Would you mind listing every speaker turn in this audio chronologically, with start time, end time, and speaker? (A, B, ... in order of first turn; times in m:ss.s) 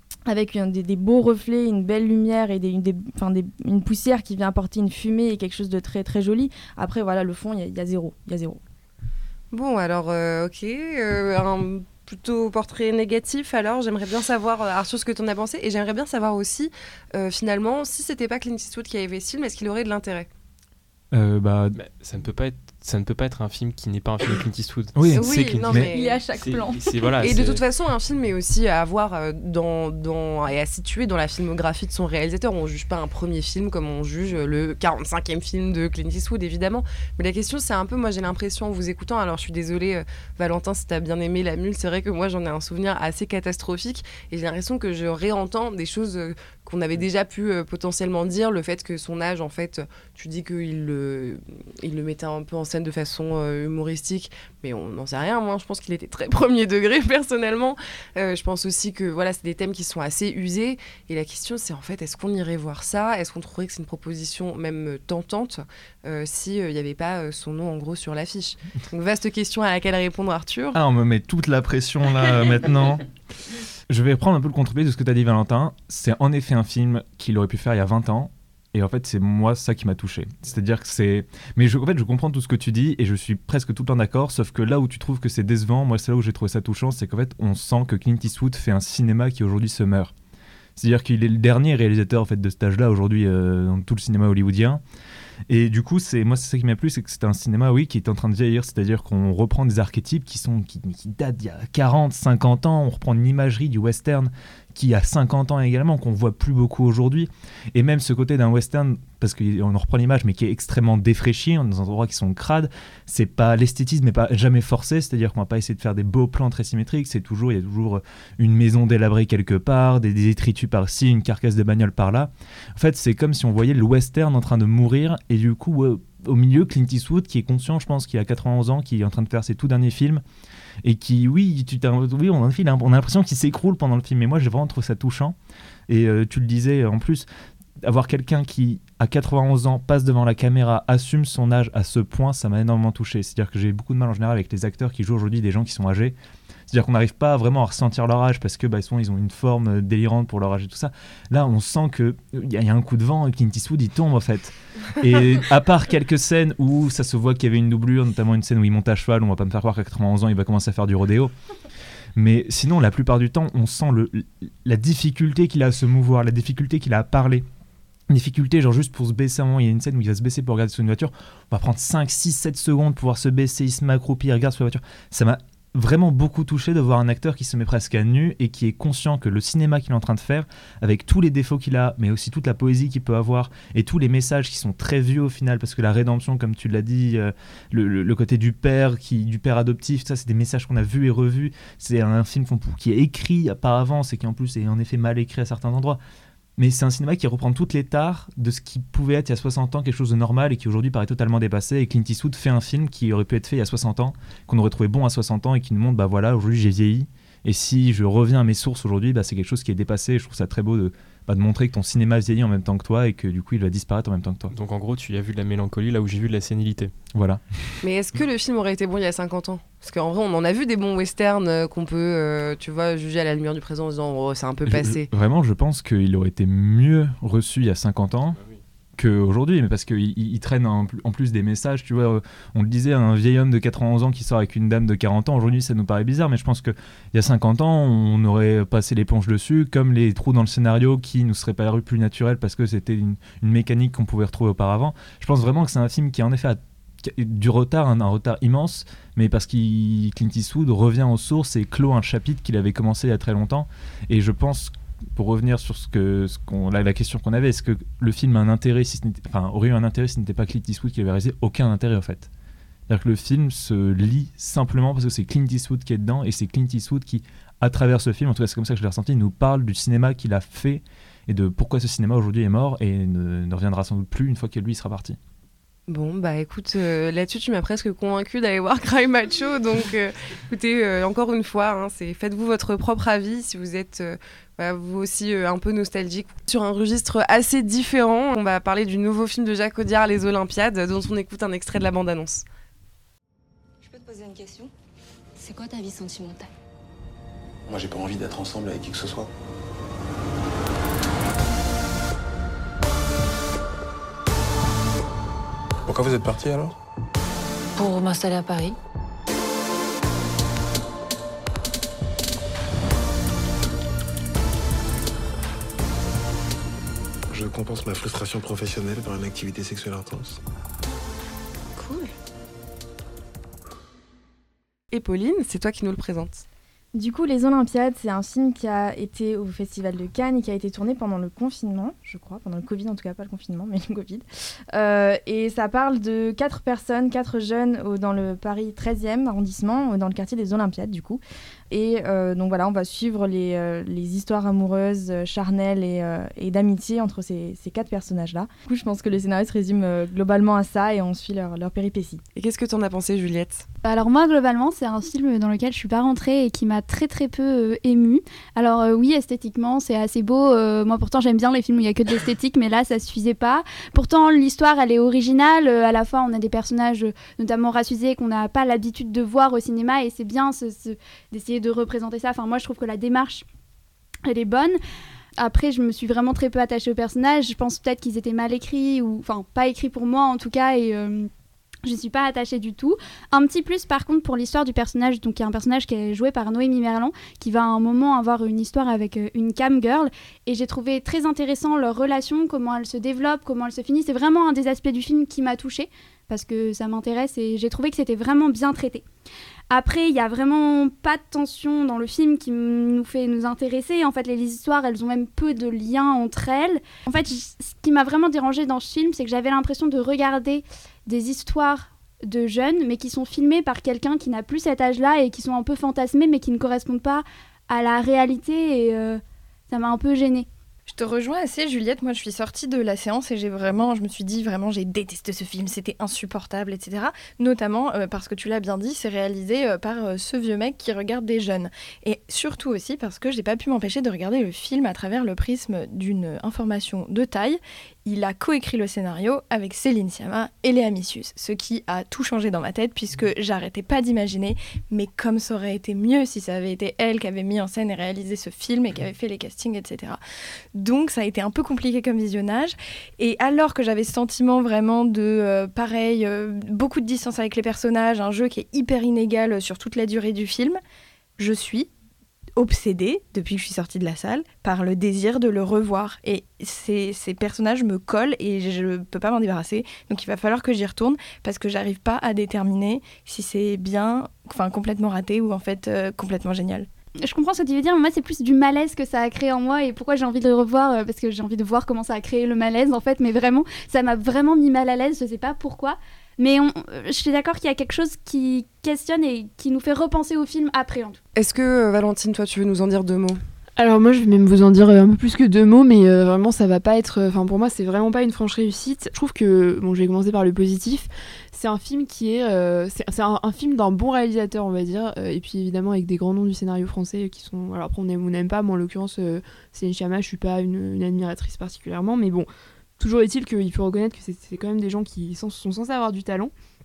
0:00.3-0:08.6 A
0:09.5-0:20.3 B
0:21.1-0:21.8 C
0:21.8-0:27.6 D
0:25.0-0:25.9 C
0:25.1-0:26.2 B
0:26.0-0:26.8 A
0:27.2-1:10.8 B
1:10.7-1:13.0 C
1:13.9-1:30.1 C
1:30.8-1:34.8 C
1:35.5-2:10.2 C
2:10.8-2:15.4 C
2:15.9-2:17.3 C
2:17.8-2:26.2 C
2:26.7-2:41.3 C
2:42.2-2:47.5 C
2:48.1-3:16.0 C
3:16.6-3:34.5 C
3:34.5-3:36.9 D
3:37.1-3:37.4 C
3:37.8-3:45.1 B
3:44.7-3:48.4 C
3:49.0-4:22.3 C
4:22.9-4:35.2 C
4:35.9-4:52.4 B
4:53.9-4:54.7 E
4:55.4-4:56.5 E
4:57.7-4:59.3 F
5:05.9-5:06.8 F
5:07.8-5:08.8 E
5:17.3-5:20.4 F
5:21.8-5:22.1 G
5:24.9-5:26.4 B
5:26.9-5:52.2 A
5:52.4-5:53.7 B
5:53.8-6:13.4 H
6:14.3-6:14.8 H
6:15.4-6:21.3 H
6:21.8-6:39.0 H
6:39.7-7:00.5 H
7:00.9-7:30.2 G
7:30.7-7:40.8 G
7:41.4-7:41.9 G
7:42.6-7:56.9 G
7:57.2-8:11.2 H
8:11.4-8:13.4 B
8:13.8-8:32.5 I
8:33.0-8:36.5 I